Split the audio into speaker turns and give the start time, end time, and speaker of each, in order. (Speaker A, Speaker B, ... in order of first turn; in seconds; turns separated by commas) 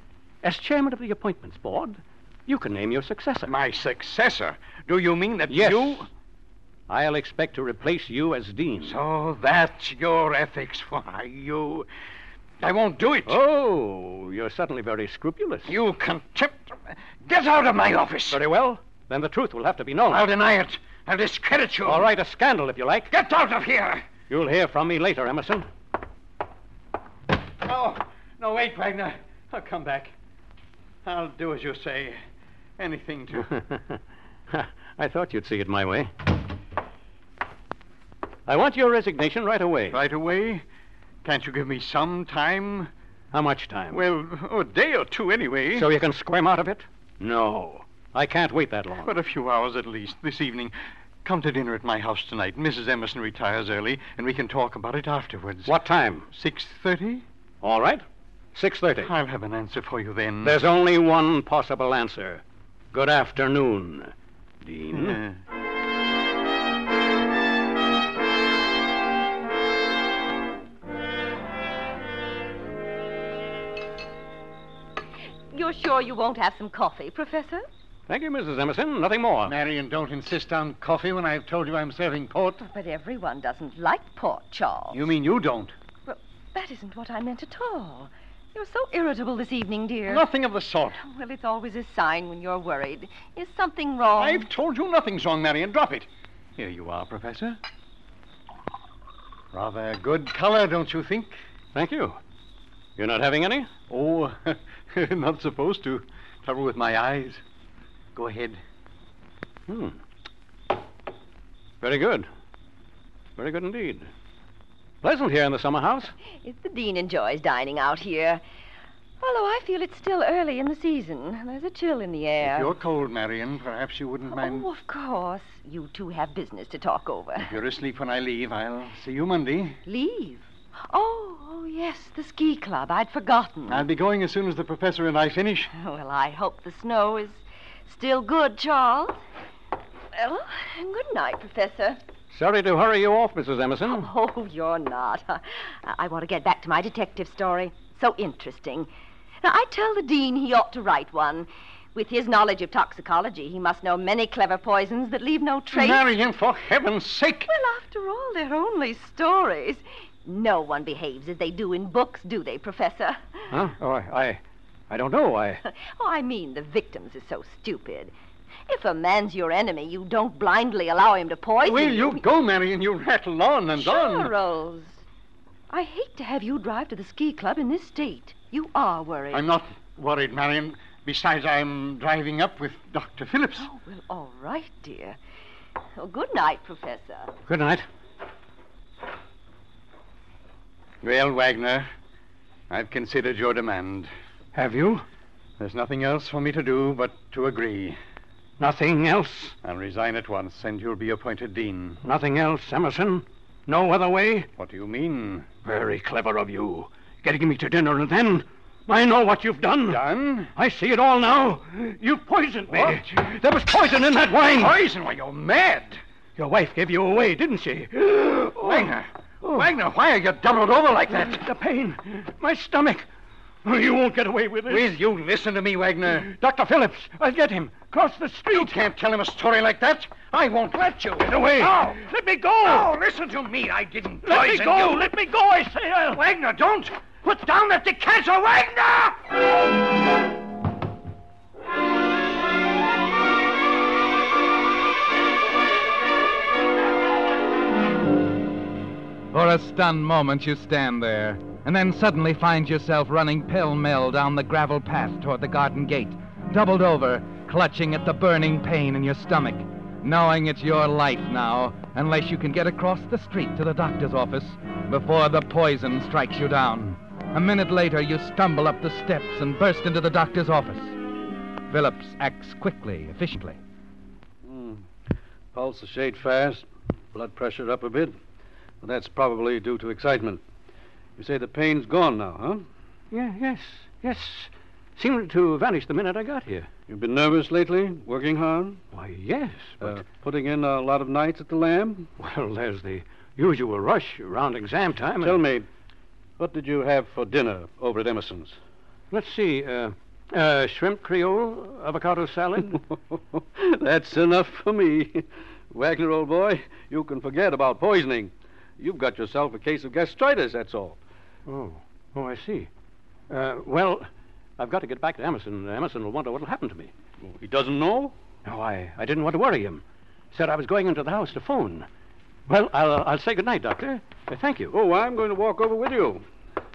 Speaker A: 0.4-3.6, Speaker B: 3.5-6.1, Speaker A: 5.5-6.1, Speaker A: 6.9-9.0, Speaker B: 8.8-11.9, Speaker B: 12.6-13.4, Speaker A: 13.3-15.8, Speaker B: 15.7-18.4, Speaker A: 18.3-20.3, Speaker B: 20.1-22.1, Speaker A: 21.9-23.1, Speaker B: 23.1-24.1, Speaker A: 24.3-25.7, Speaker B: 27.6-30.1, Speaker B: 31.1-32.2, Speaker B: 32.8-33.5, Speaker A: 33.4-36.1, Speaker A: 38.5-40.0, Speaker B: 39.9-40.6, Speaker B: 41.2-42.9, Speaker A: 43.3-44.0, Speaker B: 43.9-45.9, Speaker A: 45.7-49.1, Speaker B: 49.0-55.7, Speaker A: 55.6-56.3, Speaker B: 56.3-57.2, Speaker A: 57.6-58.0, Speaker A: 58.5-59.1, Speaker B: 59.0-60.6, Speaker A: 60.4-65.2, Speaker B: 64.9-65.4, Speaker C: 75.5-77.7, Speaker A: 78.1-79.6, Speaker B: 79.5-82.6, Speaker C: 82.6-85.0, Speaker B: 84.9-85.8, Speaker C: 86.1-90.3, Speaker B: 90.1-91.0, Speaker C: 91.0-94.5, Speaker B: 94.2-97.6, Speaker B: 99.5-101.4, Speaker A: 101.7-102.2, Speaker A: 103.0-103.7, Speaker B: 103.9-107.4, Speaker B: 108.1-108.6, Speaker A: 109.7-110.0, Speaker A: 111.8-112.3, Speaker A: 113.4-114.1, Speaker A: 115.0-116.1, Speaker C: 116.4-118.4, Speaker C: 119.2-122.7, Speaker B: 122.4-124.7, Speaker C: 124.3-127.6, Speaker B: 127.4-129.8, Speaker C: 129.9-133.9, Speaker B: 133.7-135.7, Speaker C: 135.7-139.2, Speaker C: 140.1-142.0, Speaker A: 142.3-144.1, Speaker C: 143.8-148.9, Speaker C: 149.4-156.1, Speaker B: 155.7-157.5, Speaker C: 157.5-163.5, Speaker A: 163.5-165.6, Speaker C: 165.7-168.1, Speaker C: 168.7-172.2, Speaker B: 171.6-174.3, Speaker C: 173.8-175.0, Speaker C: 175.7-179.5, Speaker B: 179.3-183.7, Speaker C: 183.6-185.2, Speaker C: 186.0-187.3, Speaker A: 187.5-187.9, Speaker B: 191.0-191.9, Speaker B: 192.7-194.1, Speaker A: 194.5-195.1, Speaker B: 195.6-198.0, Speaker A: 198.6-199.6, Speaker B: 199.6-202.0, Speaker A: 202.0-204.5, Speaker B: 204.6-205.5, Speaker A: 205.7-210.0, Speaker B: 209.8-210.5, Speaker A: 210.5-214.8, Speaker B: 212.7-213.2, Speaker B: 214.4-216.0, Speaker A: 216.4-219.7, Speaker B: 218.4-221.5, Speaker A: 221.1-223.1, Speaker A: 223.6-225.0, Speaker B: 224.7-226.3, Speaker A: 226.2-228.8, Speaker B: 228.5-232.0, Speaker A: 231.2-232.9, Speaker B: 232.6-235.1, Speaker A: 234.2-236.2, Speaker B: 236.1-239.2, Speaker D: 249.3-271.0, Speaker D: 271.7-273.6, Speaker E: 274.4-274.9, Speaker E: 275.5-278.2, Speaker E: 278.8-280.4, Speaker E: 281.2-282.7, Speaker A: 283.1-286.7, Speaker E: 286.9-288.8, Speaker A: 288.9-290.0, Speaker E: 289.8-292.1, Speaker A: 292.2-295.4, Speaker E: 295.2-295.7, Speaker E: 296.4-298.6, Speaker A: 299.1-302.8, Speaker E: 302.9-311.0, Speaker A: 311.5-312.7, Speaker A: 313.3-316.9, Speaker E: 317.2-318.1, Speaker A: 318.4-321.9, Speaker A: 322.5-324.7, Speaker E: 324.7-326.2